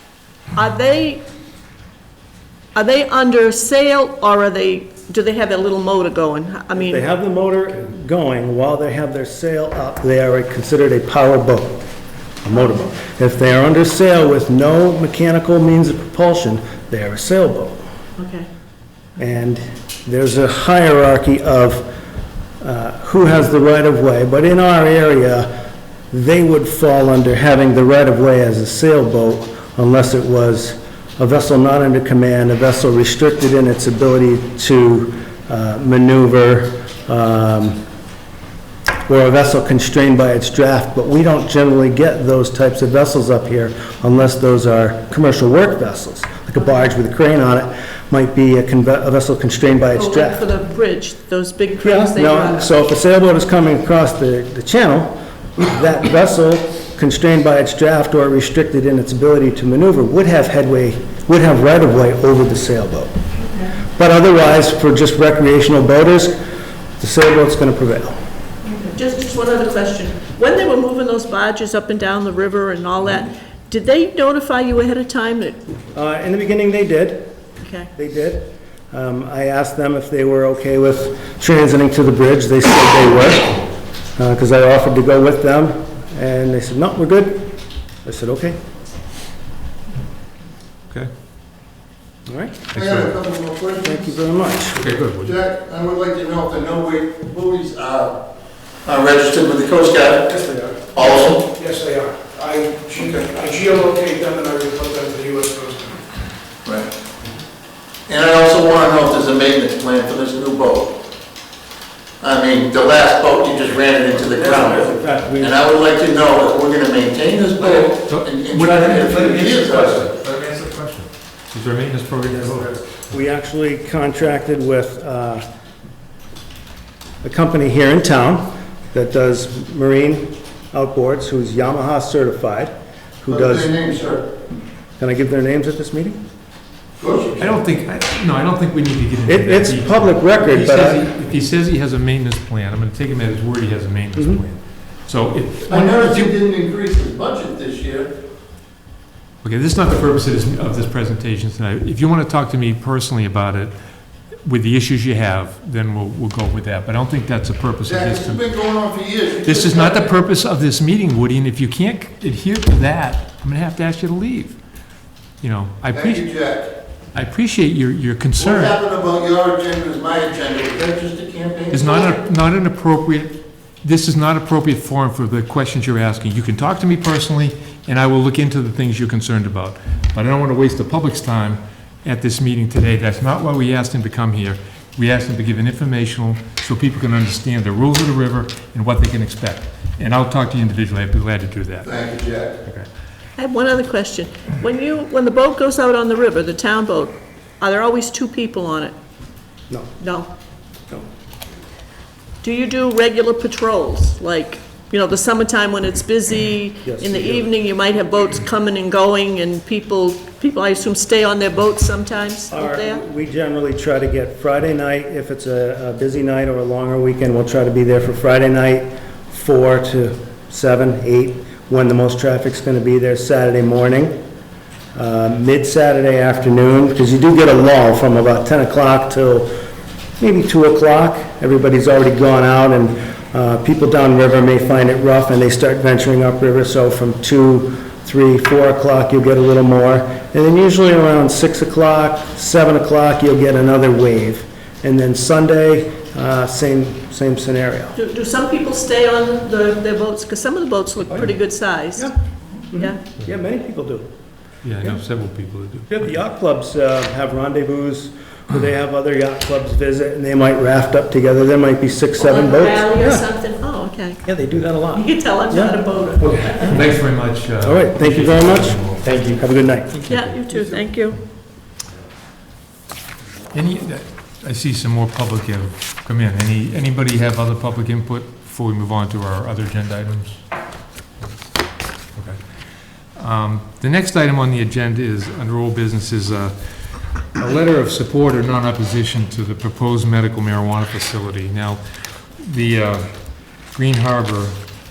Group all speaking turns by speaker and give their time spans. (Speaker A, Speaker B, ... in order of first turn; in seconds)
Speaker A: 0.5-1.2, 2.7-7.0, 18.2-18.5, 49.9-52.8, 68.6-75.7, 77.6-77.9, 193.4-198.9, 200.0-200.3, 202.4-213.0, 247.9-252.1, 262.2-264.2, 264.9-266.8, 270.1-271.2
Speaker B: 6.7-11.8, 12.4-17.8, 19.2-21.9, 22.6-25.5, 26.1-37.8, 39.0-50.5, 51.8-63.1, 63.9-66.4, 67.0-68.2, 75.9-77.3, 77.9-83.6, 84.2-88.6, 92.3-92.7, 93.8-94.7, 114.2-115.6, 122.3-125.4, 127.2-133.7, 135.0-136.2, 139.3-141.0, 144.1-144.4, 206.8-207.5, 212.5-224.2, 224.9-229.5, 230.2-247.9, 252.7-254.1, 255.9-263.3, 264.2-265.8, 266.4-266.8, 267.6-270.0
Speaker C: 92.7-93.1, 94.7-95.4, 117.6-122.8, 137.4-146.3, 149.4-153.7, 154.4-158.5, 159.4-164.6, 165.4-166.3, 167.1-168.8, 171.7-191.9, 254.6-256.0, 266.2-270.4, 273.5-280.4, 282.1-282.4, 283.1-286.5, 287.3-291.8, 292.4-293.1, 293.6-294.6
Speaker D: 92.7-94.0, 95.2-98.2, 98.8-101.5, 106.6-106.9, 108.1-111.0, 112.2-120.1, 133.3-134.3, 137.0-137.6, 145.7-148.1, 157.8-160.1, 165.9-166.7, 168.4-172.2, 191.8-192.6
Speaker E: 101.6-105.9